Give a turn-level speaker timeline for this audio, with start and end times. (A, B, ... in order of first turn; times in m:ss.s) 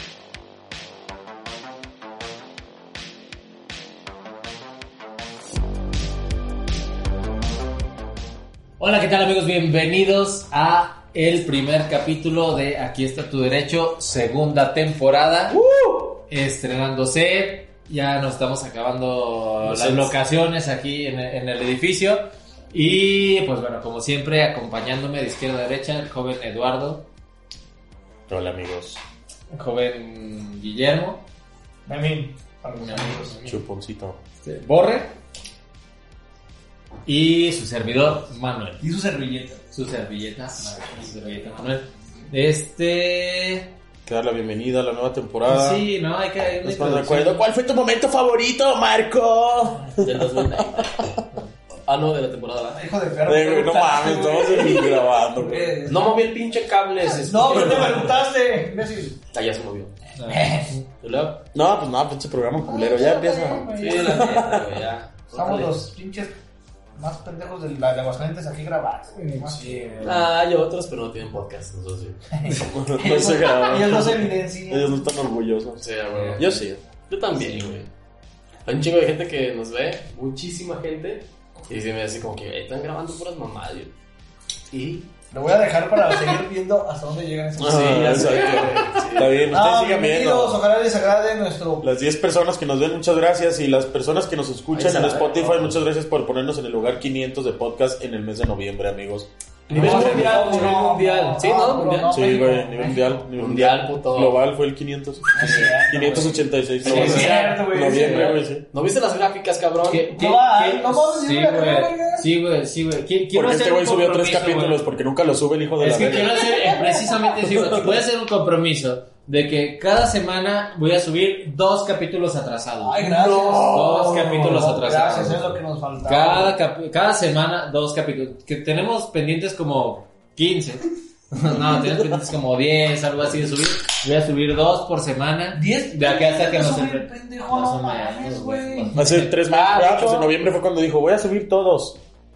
0:08.8-0:15.6 A
0:15.6-0:16.2 B
0:16.3-0:27.1 A
0:19.7-0:20.1 C
0:28.3-0:29.0 D
0:29.5-0:31.2 A
0:31.9-0:33.3 B
0:32.8-0:33.6 A
0:33.4-0:34.2 D
0:34.4-0:35.1 A
0:37.1-0:38.8 A
0:38.8-0:39.6 B
0:39.7-0:43.7 A
0:44.0-0:45.9 D
0:45.4-0:47.5 A
0:46.6-0:51.2 D
0:50.0-0:51.1 C
0:51.9-0:52.9 C
0:52.8-0:56.3 B
0:53.2-0:55.8 D
0:55.9-0:58.2 C
0:57.1-0:59.2 B
0:57.5-0:57.9 D
0:59.3-1:00.0 C
1:00.2-1:00.8 A
1:00.3-1:00.7 B
1:01.0-1:01.4 C
1:01.5-1:04.8 D
1:02.6-1:04.4 B
1:03.8-1:05.8 C
1:05.3-1:06.4 B
1:07.0-1:10.0 B
1:09.2-1:10.3 A
1:10.0-1:12.2 C
1:12.4-1:15.1 B
1:12.7-1:16.8 D
1:15.8-1:17.9 C
1:16.1-1:16.4 A
1:17.4-1:17.8 D
1:18.6-1:23.9 C
1:24.7-1:25.1 C
1:25.3-1:28.7 B
1:27.6-1:30.6 D
1:27.6-1:29.4 C
1:29.5-1:31.9 B
1:31.8-1:40.9 D
1:34.7-1:35.8 C
1:39.7-1:42.4 C
1:39.7-1:43.3 B
1:42.0-1:48.6 D
1:43.4-1:44.4 C
1:45.4-1:48.4 B
1:45.4-1:45.8 C
1:46.8-1:50.1 C
1:46.8-1:47.5 A
1:49.9-1:54.8 A
1:50.1-1:52.3 B
1:53.3-1:56.5 D
1:55.8-2:03.0 A
1:56.0-1:57.2 B
1:57.4-1:57.9 D
2:02.8-2:06.5 B
2:03.0-2:04.8 D
2:03.6-2:05.5 A
2:06.0-2:19.4 A
2:15.5-2:19.0 B
2:19.0-2:22.0 D
2:19.5-2:20.3 C